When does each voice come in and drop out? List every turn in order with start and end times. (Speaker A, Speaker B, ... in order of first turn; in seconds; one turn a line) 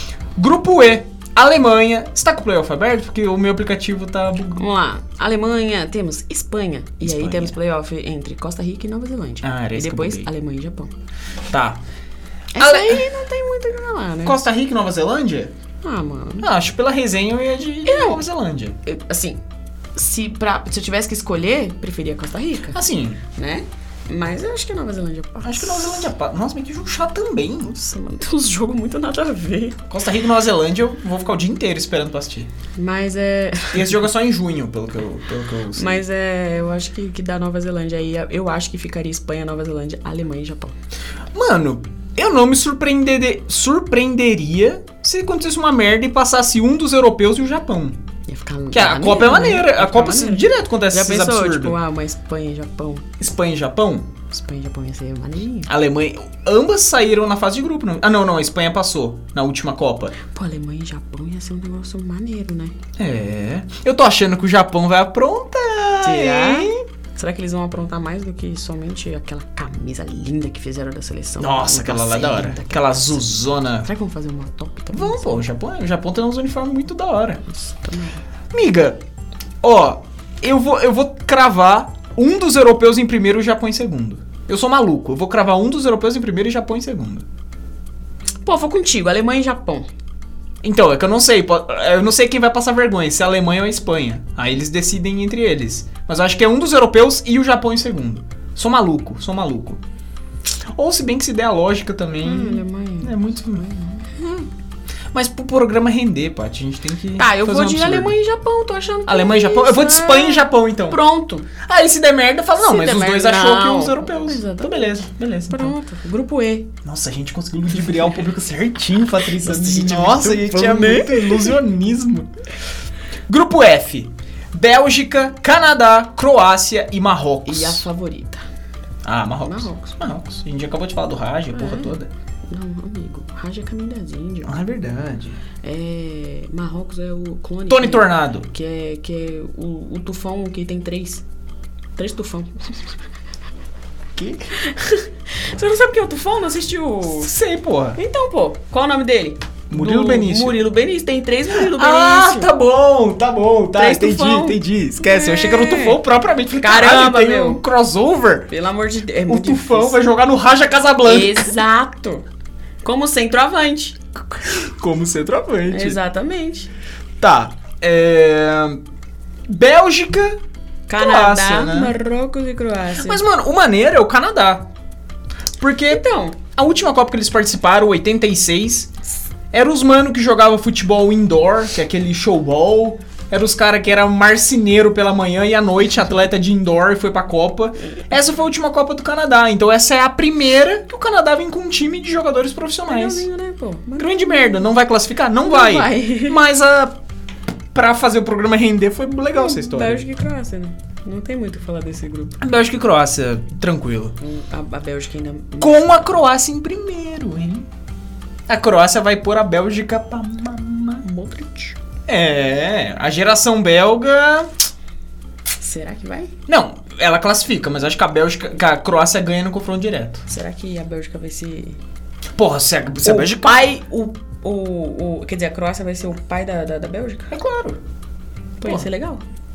Speaker A: 0.4-4.7
Speaker B: 4.6-10.9
Speaker A: 7.0-7.5
Speaker A: 9.4-10.3
Speaker A: 11.5-11.8
Speaker B: 12.5-14.4
Speaker A: 12.6-13.1
Speaker A: 14.2-15.5
Speaker B: 15.8-16.5
Speaker A: 16.4-18.8
Speaker B: 17.9-18.2
Speaker B: 18.8-19.4
Speaker B: 20.0-22.8
Speaker A: 22.7-23.2
Speaker B: 23.4-26.1
Speaker A: 25.4-27.8
Speaker B: 27.7-29.8
Speaker A: 29.9-32.5
Speaker B: 32.8-34.0
Speaker A: 33.7-36.0
Speaker B: 35.8-40.8
Speaker A: 41.3-48.0
Speaker B: 48.3-53.1
Speaker A: 48.7-51.8
Speaker A: 53.2-54.1
Speaker B: 54.3-55.7
Speaker A: 55.7-60.1
Speaker B: 60.3-62.8
Speaker A: 63.0-66.7
Speaker B: 66.0-73.3
Speaker A: 71.4-73.9
Speaker B: 73.8-75.5
Speaker A: 74.9-77.4
Speaker B: 77.5-78.2
Speaker A: 78.5-79.0
Speaker A: 79.6-87.3
Speaker B: 88.5-89.9
Speaker A: 90.6-99.8
Speaker A: 100.7-103.6
Speaker B: 102.2-104.5
Speaker A: 105.1-108.2
Speaker B: 107.2-111.5
Speaker A: 109.1-111.0
Speaker A: 111.6-115.8
Speaker B: 112.6-115.0
Speaker B: 115.5-116.7
Speaker A: 116.8-122.3
Speaker B: 119.4-121.5
Speaker A: 123.3-127.9
Speaker B: 127.5-128.4
Speaker A: 129.0-132.1
Speaker B: 129.4-129.9
Speaker B: 131.5-132.0
Speaker B: 132.5-134.6
Speaker A: 134.4-135.4
Speaker B: 135.6-141.2
Speaker A: 137.7-138.5
Speaker B: 142.0-142.9
Speaker A: 144.2-144.5
Speaker B: 144.6-147.3
Speaker A: 147.1-148.0
Speaker B: 147.9-152.5
Speaker A: 149.7-150.6
Speaker A: 151.5-158.5
Speaker B: 153.8-156.0
Speaker B: 156.6-157.6
Speaker B: 158.5-160.0
Speaker A: 159.3-161.5
Speaker B: 161.1-162.2
Speaker B: 162.8-164.0
Speaker A: 164.4-166.0
Speaker B: 165.7-166.7
Speaker A: 167.2-168.8
Speaker A: 169.5-170.4
Speaker B: 170.9-173.2
Speaker A: 170.9-171.9
Speaker A: 173.0-174.7
Speaker A: 175.6-176.0
Speaker B: 175.9-176.4
Speaker A: 176.5-178.9
Speaker A: 179.5-193.3
Speaker B: 192.9-194.7
Speaker A: 194.0-196.9
Speaker B: 195.4-196.4
Speaker A: 197.7-200.0
Speaker B: 199.3-202.4
Speaker A: 202.4-204.2
Speaker B: 204.2-206.2
Speaker A: 205.6-207.7
Speaker A: 208.5-211.1
Speaker B: 211.0-211.8
Speaker A: 212.1-214.5
Speaker B: 215.6-216.3
Speaker A: 216.5-220.3
Speaker B: 220.3-221.8
Speaker A: 222.4-223.7
Speaker B: 223.0-227.3
Speaker A: 227.3-227.8
Speaker B: 228.6-229.2
Speaker A: 228.6-228.9